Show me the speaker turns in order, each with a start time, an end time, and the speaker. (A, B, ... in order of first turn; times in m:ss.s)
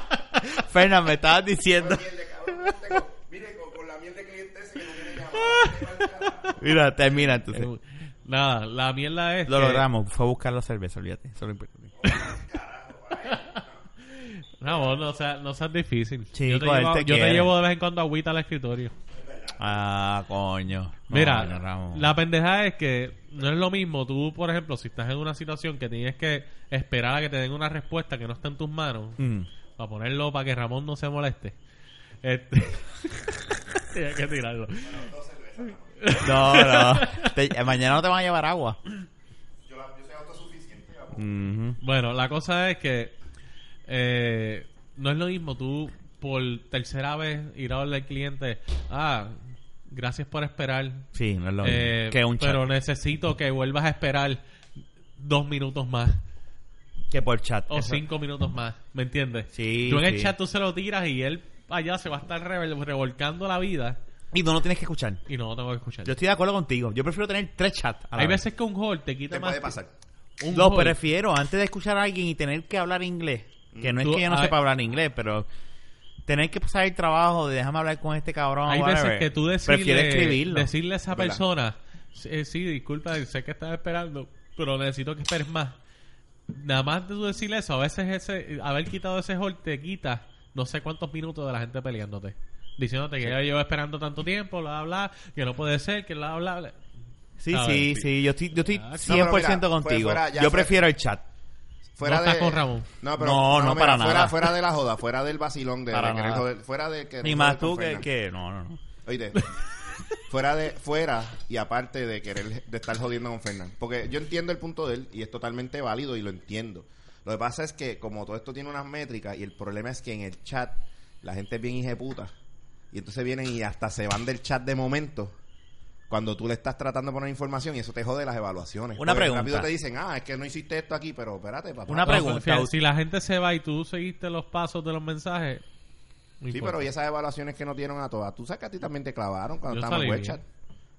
0:00.4-0:02.0 A
0:01.8-0:06.6 B
0:06.5-0:07.7 A
0:07.5-0:09.8 C
0:09.5-0:11.9 A
0:12.0-0:13.8 B
0:13.3-0:13.6 C
0:14.1-0:18.9 C
0:16.3-0:17.5 A
0:19.2-0:19.5 B
0:19.6-0:22.1 A
0:21.1-0:29.2 C
0:29.2-0:29.5 A
0:29.8-0:31.6 C
0:32.2-0:35.1 C
0:34.8-0:36.1 B
0:36.0-0:37.3 C
0:36.2-0:38.8 A
0:39.7-0:41.2 B
0:41.1-0:41.8 A
0:41.8-0:43.1 C
0:43.9-0:51.1 C
0:51.1-0:52.6 A
0:51.6-0:54.4 C
0:55.2-0:56.2 C
0:57.1-0:58.0 A
0:57.7-1:04.0 C
0:59.5-1:00.3 A
1:04.3-1:05.2 A
1:05.3-1:06.1 C
1:06.0-1:08.4 A
1:08.2-1:09.8 C
1:09.3-1:09.9 B
1:10.4-1:11.0 C
1:10.5-1:15.5 A
1:13.7-1:14.0 B
1:14.0-1:14.6 C
1:16.3-1:20.7 A
1:18.7-1:25.8 C
1:21.1-1:21.4 B
1:26.5-1:36.8 C
1:37.4-1:41.2 A
1:37.5-1:38.1 C
1:38.6-1:39.2 C
1:39.0-1:40.8 B
1:42.0-1:48.0 B
1:42.0-1:42.9 C
1:43.2-1:44.5 A
1:45.9-1:46.5 A
1:47.2-1:48.8 A
1:49.0-1:49.4 B
1:50.3-2:02.3 B
2:02.9-2:05.3 B
2:06.1-2:12.3 B
2:09.0-2:09.7 A
2:11.9-2:12.7 A
2:12.0-2:15.6 C
2:16.4-2:16.9 C
2:16.5-2:20.4 B
2:19.7-2:20.4 C